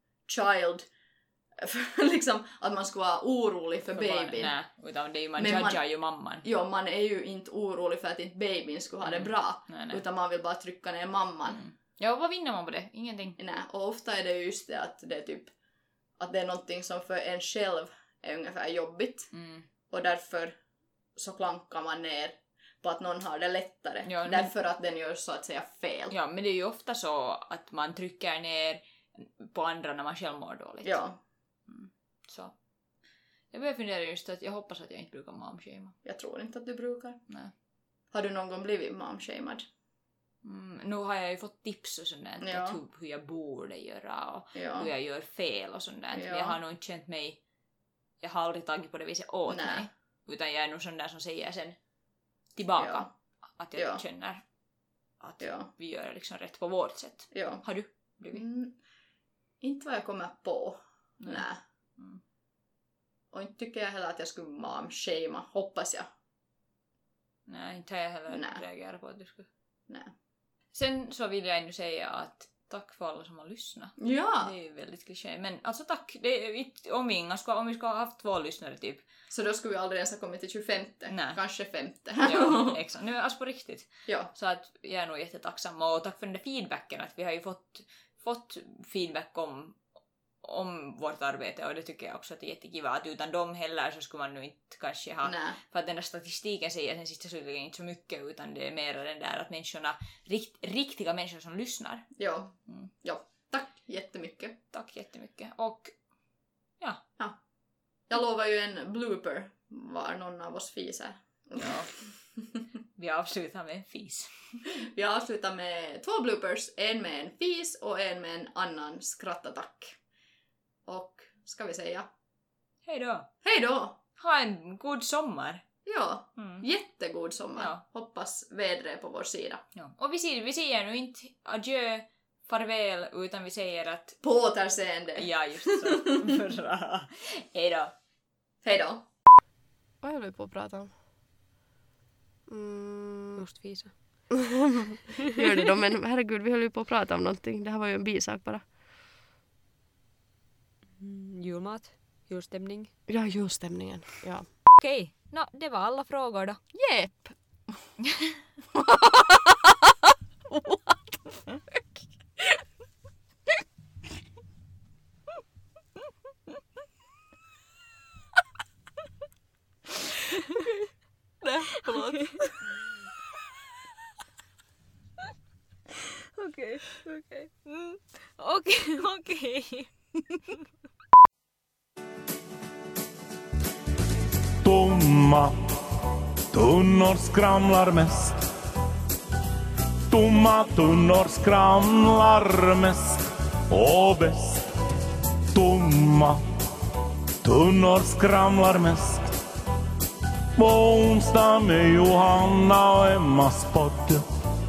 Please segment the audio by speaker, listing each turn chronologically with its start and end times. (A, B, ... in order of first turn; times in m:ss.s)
0:00.2-0:00.9 A
0:01.6-0:04.6 A
0:03.9-0:06.4 B
0:05.4-0:05.8 A
0:06.4-0:11.6 A
0:09.0-0:10.0 B
0:11.5-0:13.4 B
0:13.4-0:15.6 A
0:16.1-0:19.4 A
0:19.3-0:19.7 B
0:19.9-0:20.6 A
0:21.2-0:26.1 A
0:24.1-0:24.5 B
0:26.1-0:32.6 B
0:30.8-0:31.2 A
0:33.5-0:36.0 B
0:36.0-0:37.2 A
0:38.1-0:39.6 A
0:40.4-0:47.4 B
0:42.4-0:42.8 A
0:44.5-0:44.9 A
0:46.1-0:46.6 A
0:48.2-0:51.9 B
0:49.5-0:49.9 A
0:52.5-0:54.5 B
0:52.8-0:53.1 A
0:53.7-0:54.0 A
0:55.1-0:58.4 B
0:55.4-0:55.7 A
0:57.3-0:58.8 A
0:59.6-1:01.6 A
1:01.2-1:02.2 B
1:03.3-1:06.1 A
1:07.5-1:09.5 B
1:08.3-1:08.6 A
1:09.9-1:10.1 A
1:10.7-1:19.0 B
1:14.0-1:14.5 A
1:19.3-1:22.8 A
1:21.1-1:42.9 B
1:24.1-1:24.3 A
1:35.2-1:35.6 A
1:42.2-1:44.6 A
1:44.7-1:47.0 B
1:48.1-1:52.2 A
1:51.6-1:52.4 B
1:53.0-1:54.7 B
1:54.8-2:00.0 A
2:00.9-2:02.1 A
2:02.8-2:03.3 B
2:03.4-2:04.0 A
2:04.2-2:05.6 B
2:05.8-2:09.6 A
2:06.4-2:06.6 B
2:07.6-2:07.8 B
2:09.8-2:14.3 B
2:14.2-2:16.2 A
2:15.1-2:17.9 B
2:18.6-2:19.1 A
2:20.0-2:20.9 C
2:22.5-2:23.4 C
2:23.4-2:24.3 D
2:25.3-2:28.7 C
2:31.0-2:32.9 D
2:33.1-2:34.5 C
2:34.8-2:36.6 B
2:36.7-2:37.9 A
2:38.9-2:39.2 A
2:51.4-2:52.6 A
2:52.1-2:52.4 B
2:56.4-3:00.1 B
3:04.6-3:05.6 E
3:06.5-3:08.4 E
3:10.1-3:14.7 E
3:15.5-3:16.4 E
3:17.4-3:19.4 E
3:20.6-3:24.3 E